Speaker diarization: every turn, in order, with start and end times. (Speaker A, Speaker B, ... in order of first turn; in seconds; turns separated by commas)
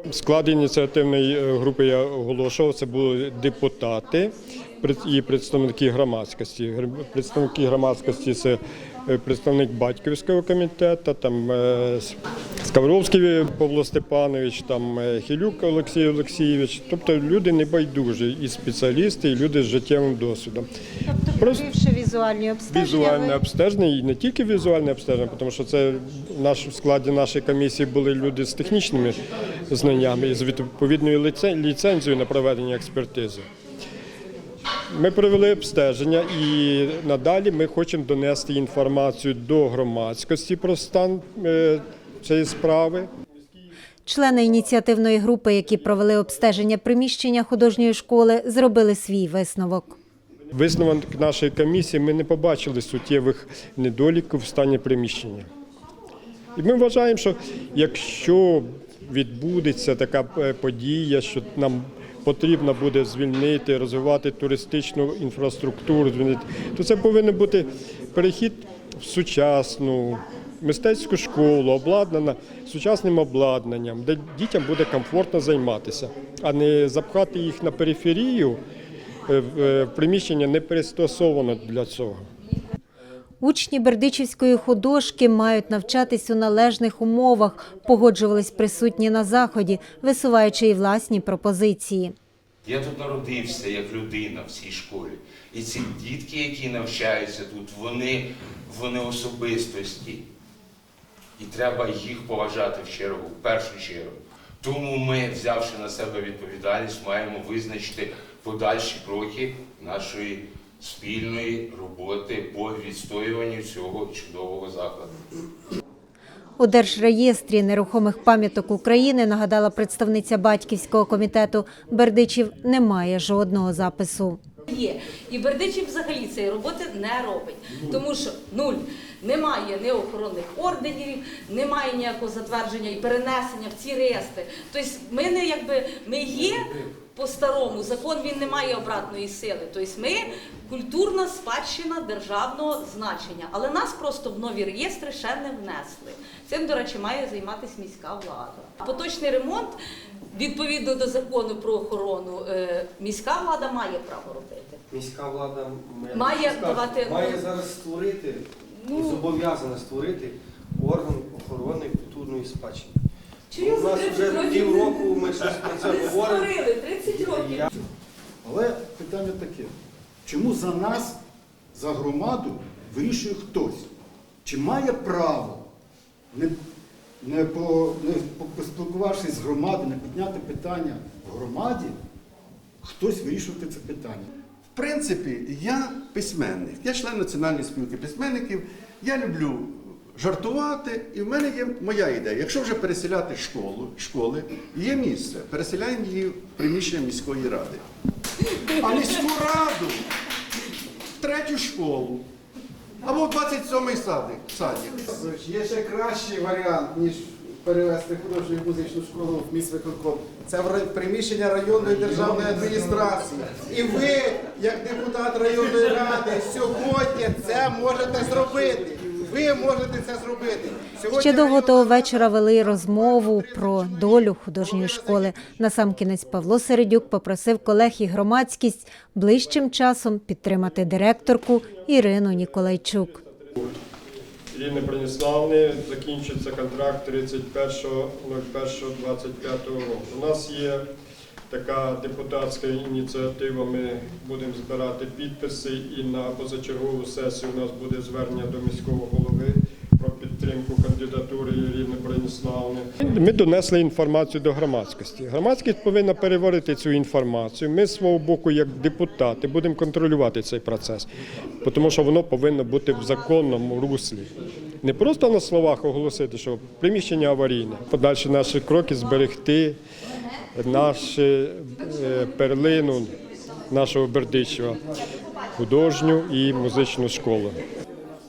Speaker A: 0.1-20.7, Speaker B: 21.0-23.4, Speaker A: 21.4-21.6, Speaker A: 22.7-33.5, Speaker A: 34.9-43.1, Speaker B: 44.0-50.0, Speaker A: 50.5-55.5, Speaker A: 56.5-78.6, Speaker A: 79.3-82.2, Speaker B: 83.4-92.1, Speaker C: 92.8-98.2, Speaker C: 98.8-100.2, Speaker C: 101.4-115.2, Speaker B: 116.6-124.4, Speaker D: 124.7-149.7, Speaker D: 150.3-154.8, Speaker E: 154.9-163.0, Speaker D: 156.1-157.4, Speaker D: 158.8-159.3, Speaker D: 163.5-167.7, Speaker E: 163.5-167.7, Speaker F: 168.4-169.7, Speaker F: 170.2-171.2, Speaker F: 171.7-173.9, Speaker F: 174.4-175.6, Speaker F: 177.2-181.9, Speaker F: 182.8-184.3, Speaker G: 184.7-197.8, Speaker G: 198.6-200.1, Speaker G: 201.2-202.2, Speaker G: 203.0-205.2, Speaker H: 205.1-225.4, Speaker B: 221.1-233.2, Speaker A: 234.5-240.8, Speaker A: 241.5-261.1, Speaker A: 261.6-264.3, Speaker A: 264.8-269.8, Speaker A: 270.6-273.1, Speaker A: 273.7-274.8, Speaker A: 275.6-277.6